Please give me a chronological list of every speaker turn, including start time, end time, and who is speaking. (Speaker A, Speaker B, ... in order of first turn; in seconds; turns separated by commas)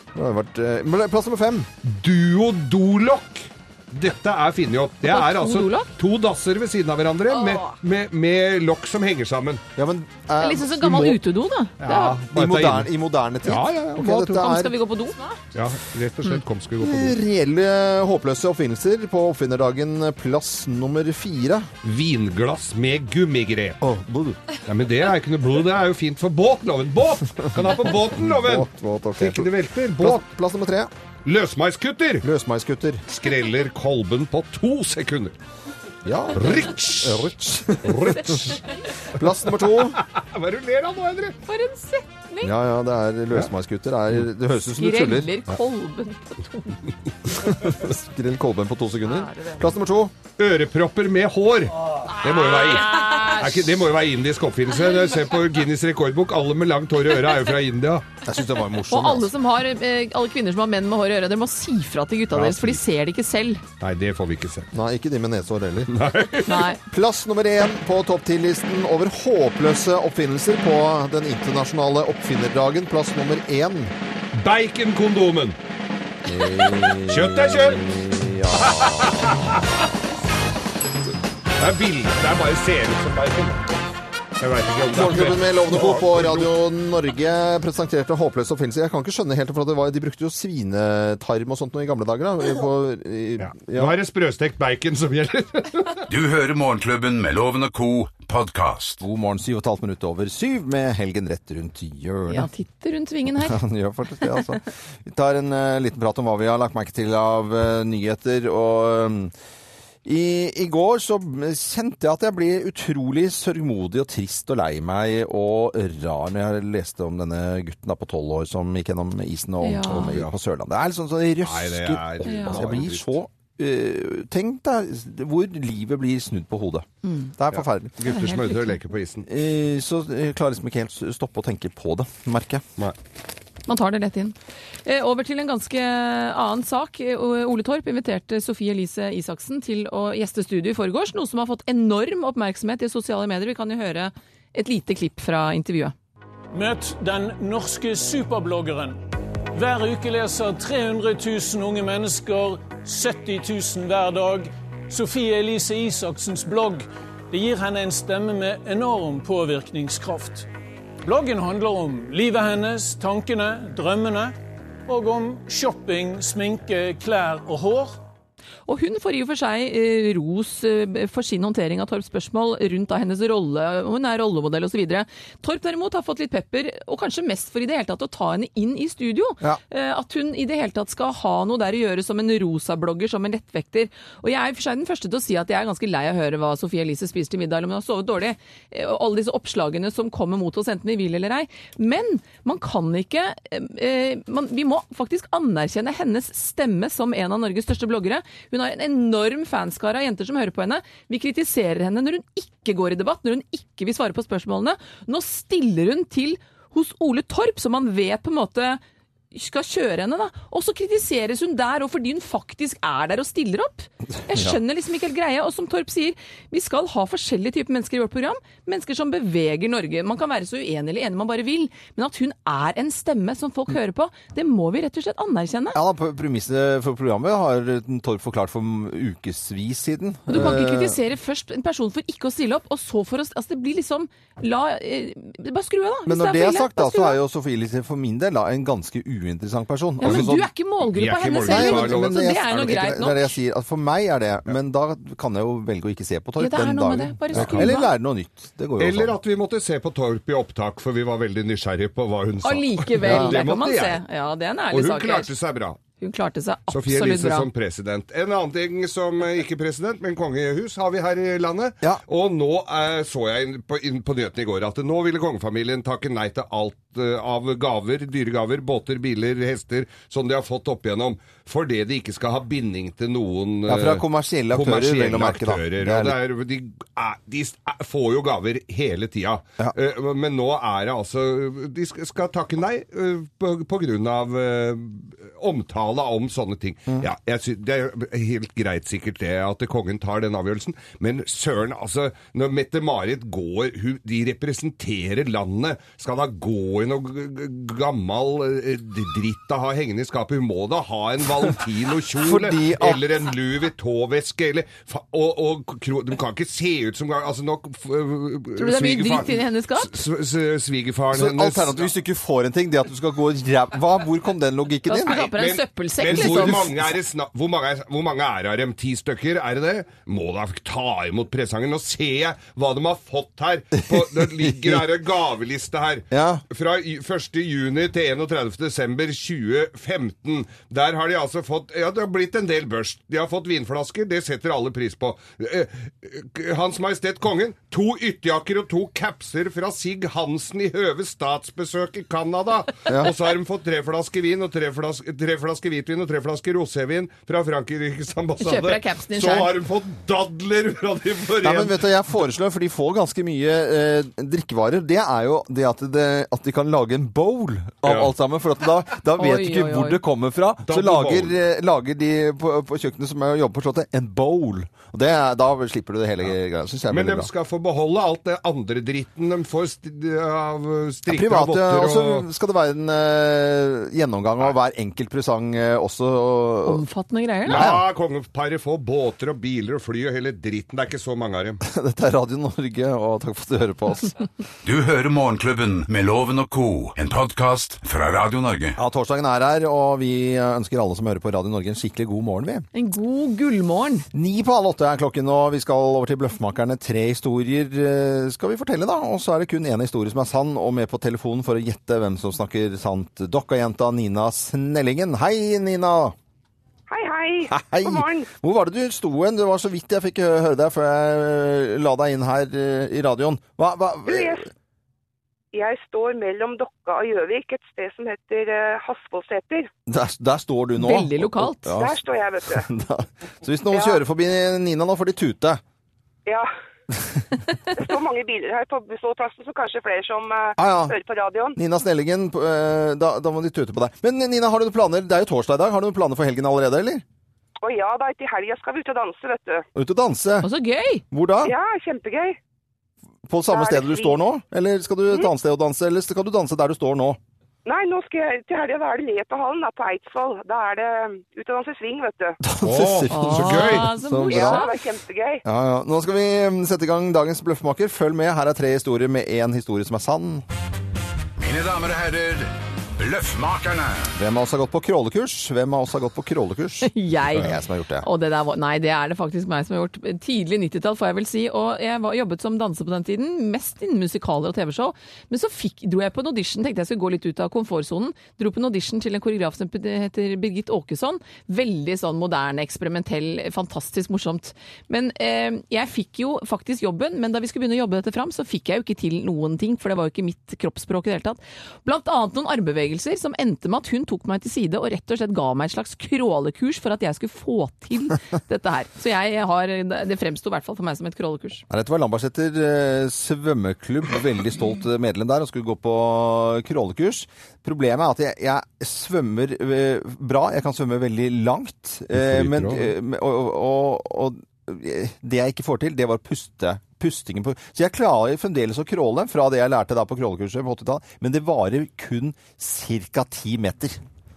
Speaker A: 0.1-1.7, Speaker B: 1.8-9.6, Speaker C: 5.0-5.9, Speaker A: 9.8-11.2, Speaker C: 10.4-12.2, Speaker B: 11.8-12.9, Speaker A: 12.2-14.7, Speaker B: 13.4-14.7, Speaker C: 14.3-15.4, Speaker B: 15.5-17.2, Speaker A: 16.8-21.7, Speaker B: 21.8-23.8, Speaker A: 23.8-24.4, Speaker B: 24.6-30.2, Speaker A: 27.6-30.9, Speaker B: 31.2-32.2, Speaker A: 32.2-33.0, Speaker B: 33.1-35.3, Speaker A: 36.0-38.6, Speaker B: 36.3-38.6, Speaker A: 39.1-40.0, Speaker B: 39.5-41.4, Speaker C: 41.5-42.5, Speaker A: 42.4-45.3, Speaker C: 44.7-46.8, Speaker A: 47.3-50.1, Speaker C: 49.1-49.6, Speaker B: 50.4-58.1, Speaker C: 52.1-53.7, Speaker A: 58.2-59.3, Speaker C: 58.9-63.6, Speaker B: 62.3-62.8, Speaker B: 63.8-64.7, Speaker A: 64.7-65.9, Speaker B: 65.9-66.7, Speaker C: 66.5-66.8, Speaker A: 66.8-73.9, Speaker B: 74.3-75.6, Speaker A: 76.2-79.8, Speaker B: 77.1-77.8, Speaker B: 78.5-79.8, Speaker B: 81.6-83.7, Speaker B: 84.4-86.5, Speaker A: 84.9-94.0, Speaker B: 93.4-96.0, Speaker D: 96.1-99.0, Speaker A: 99.0-102.5, Speaker C: 102.3-103.6, Speaker A: 103.4-109.3, Speaker A: 110.0-128.0, Speaker C: 119.6-120.2, Speaker B: 119.9-120.3, Speaker B: 121.4-123.1, Speaker C: 122.2-122.6, Speaker C: 127.0-127.3, Speaker B: 127.5-129.2, Speaker C: 128.0-128.7, Speaker A: 129.2-132.6, Speaker C: 133.7-145.9, Speaker E: 146.5-149.0, Speaker E: 149.5-160.5, Speaker E: 161.0-168.0, Speaker C: 168.7-208.8, Speaker C: 209.3-225.8, Speaker A: 214.2-214.6, Speaker A: 225.7-231.0, Speaker C: 230.3-237.2, Speaker A: 236.1-240.5, Speaker C: 240.0-243.3, Speaker B: 240.0-242.7, Speaker A: 241.4-249.1, Speaker C: 246.4-247.9, Speaker B: 247.3-247.7, Speaker B: 248.8-254.0, Speaker C: 252.4-255.3, Speaker A: 253.0-253.5, Speaker B: 254.7-255.8, Speaker C: 256.0-257.5, Speaker B: 256.7-311.9, Speaker A: 273.7-276.1, Speaker A: 302.1-303.1, Speaker C: 308.6-309.9, Speaker A: 311.1-315.2, Speaker C: 314.9-316.7, Speaker B: 315.1-351.8, Speaker A: 316.1-316.9, Speaker A: 323.9-324.8, Speaker A: 326.1-326.4, Speaker A: 342.9-343.1, Speaker C: 348.4-349.5, Speaker A: 351.4-367.3, Speaker B: 357.8-358.1, Speaker C: 359.2-360.0, Speaker B: 360.6-361.4, Speaker B: 366.9-372.2, Speaker A: 371.1-376.8, Speaker C: 376.6-377.6, Speaker B: 377.4-381.6, Speaker A: 377.5-377.8, Speaker A: 381.6-384.1, Speaker D: 384.6-388.8, Speaker A: 388.8-392.6, Speaker C: 392.7-394.1, Speaker A: 394.1-406.1, Speaker F: 406.9-408.3, Speaker A: 407.5-414.5, Speaker F: 414.1-414.4, Speaker F: 415.5-419.7, Speaker A: 419.9-425.6, Speaker C: 420.8-421.7, Speaker F: 421.7-422.6, Speaker F: 423.7-424.0, Speaker F: 427.7-431.6, Speaker A: 430.6-430.9, Speaker A: 431.5-437.0, Speaker F: 437.6-439.6, Speaker A: 439.7-440.5, Speaker C: 440.4-441.0, Speaker A: 441.1-441.5, Speaker F: 441.4-442.4, Speaker A: 443.3-447.2, Speaker F: 443.5-444.2, Speaker F: 447.6-452.4, Speaker A: 452.4-454.7, Speaker B: 452.6-453.9, Speaker C: 453.1-454.7, Speaker F: 454.3-455.4, Speaker A: 455.4-460.4, Speaker D: 461.4-464.1, Speaker A: 464.1-468.1, Speaker C: 466.8-501.6, Speaker A: 501.7-524.0, Speaker B: 512.1-512.9